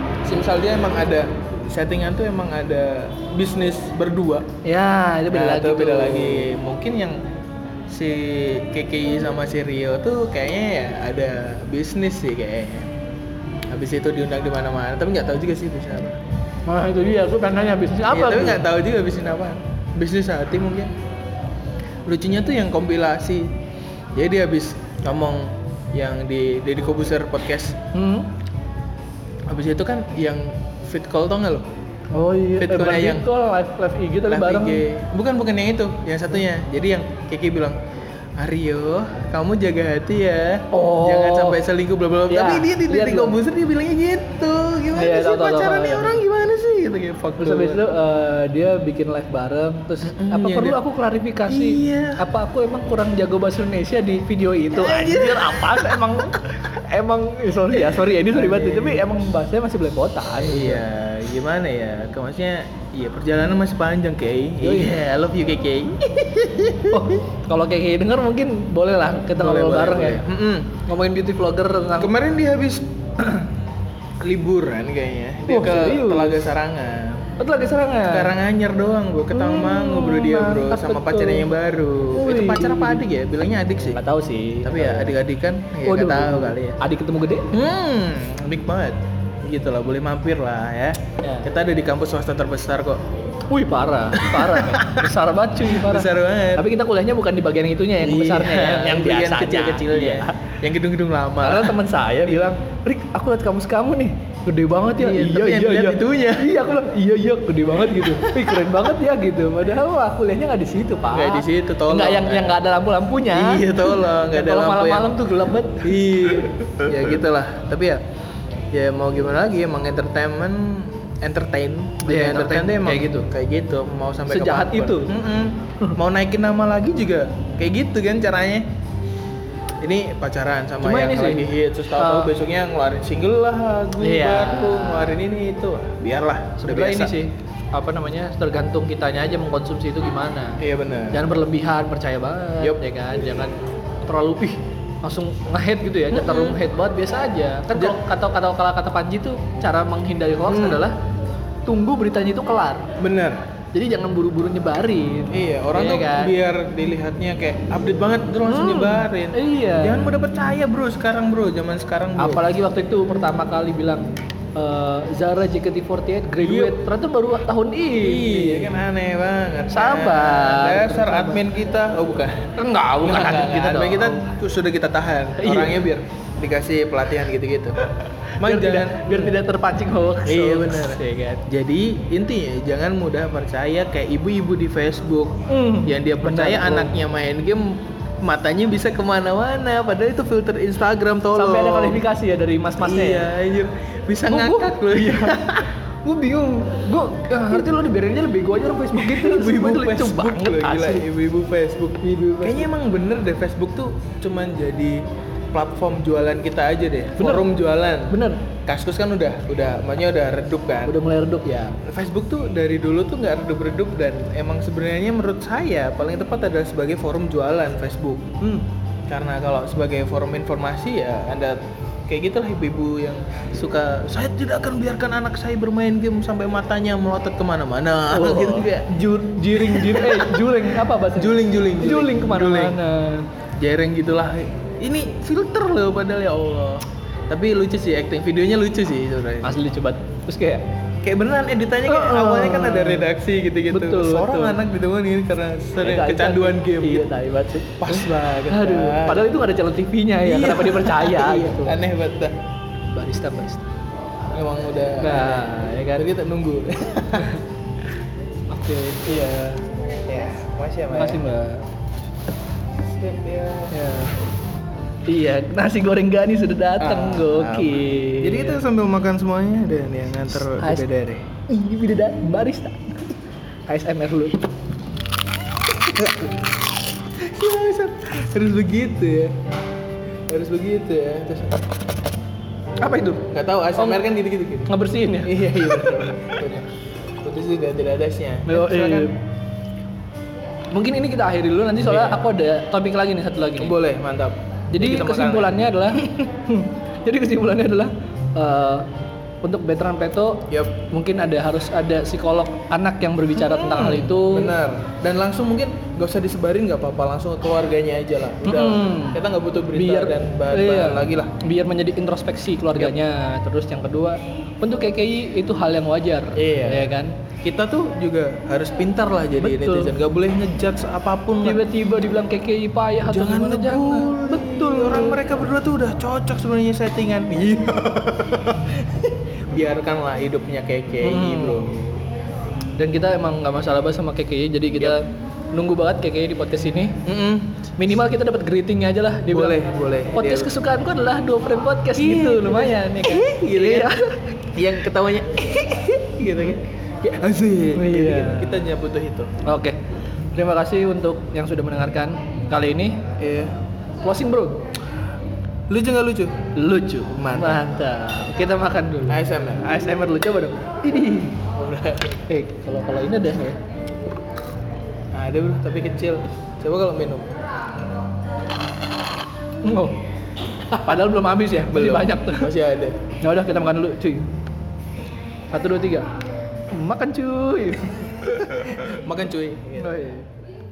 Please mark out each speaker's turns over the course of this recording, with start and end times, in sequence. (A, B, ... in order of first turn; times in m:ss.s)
0:00.2-0:04.5 A
0:04.6-0:06.5 B
0:05.3-0:07.2 A
0:07.9-0:12.9 A
0:13.7-0:16.2 A
0:16.7-0:18.7 B
0:18.1-0:20.9 A
0:22.1-0:23.5 A
0:24.1-0:27.8 A
0:27.9-0:28.3 B
0:29.5-0:31.7 A
0:32.1-0:34.8 B
0:32.6-0:33.3 A
0:34.3-0:37.8 A
0:38.4-0:47.9 A
0:40.7-0:41.6 B
0:42.3-0:43.4 B
0:44.9-0:46.2 B
0:47.4-1:00.8 B
0:50.0-0:50.8 A
0:51.5-0:52.2 A
0:54.7-0:56.3 A
0:57.7-0:59.1 A
1:00.4-1:07.2 A
1:04.6-1:05.0 B
1:06.9-1:10.2 B
1:09.4-1:10.7 A
1:10.8-1:12.1 B
1:12.0-1:13.4 A
1:14.2-1:17.3 A
1:15.5-1:16.5 B
1:17.4-1:18.3 B
1:18.1-1:24.0 A
1:19.3-1:21.5 B
1:22.1-1:23.0 B
1:23.8-1:25.2 B
1:24.6-1:26.8 A
1:25.9-1:27.5 B
1:27.5-1:33.0 A
1:31.2-1:31.5 B
1:33.5-1:40.4 B
1:34.1-1:35.1 A
1:35.6-1:36.7 A
1:38.0-1:42.4 A
1:41.4-1:56.5 B
1:45.0-1:46.6 A
1:47.8-1:48.6 A
1:51.1-1:52.6 A
1:53.3-1:55.2 A
1:55.8-1:58.0 A
1:58.7-2:08.7 A
2:02.0-2:03.3 B
2:04.3-2:05.1 B
2:09.8-2:17.1 A
2:10.8-2:12.3 B
2:14.0-2:15.2 B
2:16.6-2:31.0 B
2:20.6-2:21.2 A
2:26.1-2:26.6 A
2:27.7-2:28.0 A
2:30.5-2:30.8 A
2:31.7-2:32.9 B
2:33.0-2:33.4 A
2:33.7-2:36.3 B
2:35.3-2:42.5 A
2:38.5-2:40.1 B
2:42.2-2:48.8 B
2:46.4-2:46.8 A
2:48.0-2:57.9 A
2:49.7-2:51.4 B
2:52.6-2:54.3 B
2:55.4-2:55.8 B
2:58.4-3:01.4 B
2:58.4-2:59.4 A
3:00.2-3:12.0 A
3:05.5-3:06.9 B
3:11.4-3:13.3 B
3:12.8-3:15.7 A
3:14.3-3:15.4 B
3:16.0-3:21.0 B
3:19.0-3:31.0 A
3:22.0-3:22.7 B
3:27.2-3:27.5 B
3:28.1-3:28.4 B
3:30.8-3:31.8 B
3:31.8-3:38.3 A
3:38.4-3:38.7 B
3:39.1-3:50.6 A
3:48.1-3:53.3 B
3:51.1-3:52.8 A
3:53.6-3:59.6 A
3:59.4-4:00.6 B
4:01.0-4:07.1 A
4:01.9-4:03.1 B
4:03.7-4:04.6 B
4:05.8-4:11.8 B
4:07.8-4:09.3 A
4:10.2-4:12.4 A
4:12.9-4:13.7 B
4:14.3-4:17.4 A
4:15.0-4:16.1 B
4:18.5-4:19.1 B
4:19.0-4:21.3 A
4:20.9-4:21.6 B
4:22.8-4:23.7 A
4:23.7-4:24.1 B
4:25.1-4:28.6 B
4:26.8-4:31.3 A
4:30.6-4:30.9 B
4:31.4-4:33.1 B
4:33.7-4:34.4 B
4:35.9-4:36.4 A
4:37.1-4:39.4 A
4:40.3-4:41.7 A
4:42.8-4:44.0 B
4:43.3-4:46.7 A
4:44.7-4:46.0 B
4:47.2-4:49.1 A
4:48.5-4:49.2 B
4:50.7-4:53.8 B
4:51.8-4:52.3 A
4:53.6-4:56.3 A
4:54.7-4:58.9 B
4:59.4-5:04.5 B
5:00.5-5:00.8 A
5:03.3-5:11.4 A
5:08.4-5:09.2 B
5:09.7-5:17.1 B
5:16.4-5:21.6 A
5:19.4-5:19.9 B
5:21.4-5:25.2 B
5:23.1-5:32.0 A
5:31.0-5:31.6 B
5:32.8-5:37.0 B
5:37.0-5:37.6 A
5:37.8-5:39.6 B
5:39.3-5:40.5 A
5:40.1-5:44.3 B
5:42.0-5:44.0 A
5:44.5-5:49.4 A
5:47.7-5:48.6 B
5:49.4-5:49.8 B
5:50.4-5:53.1 B
5:53.2-5:53.5 A
5:54.0-5:54.6 B
5:55.7-5:56.4 A
5:56.6-6:01.4 B
5:57.1-5:57.7 A
5:59.1-5:59.9 A
6:01.5-6:02.2 A
6:02.3-6:03.6 B
6:05.1-6:07.3 A
6:09.6-6:10.0 B
6:10.7-6:12.5 B
6:11.7-6:13.0 A
6:13.2-6:14.3 B
6:15.5-6:16.1 B
6:16.7-6:18.5 B
6:18.5-6:20.1 A
6:19.8-6:20.3 B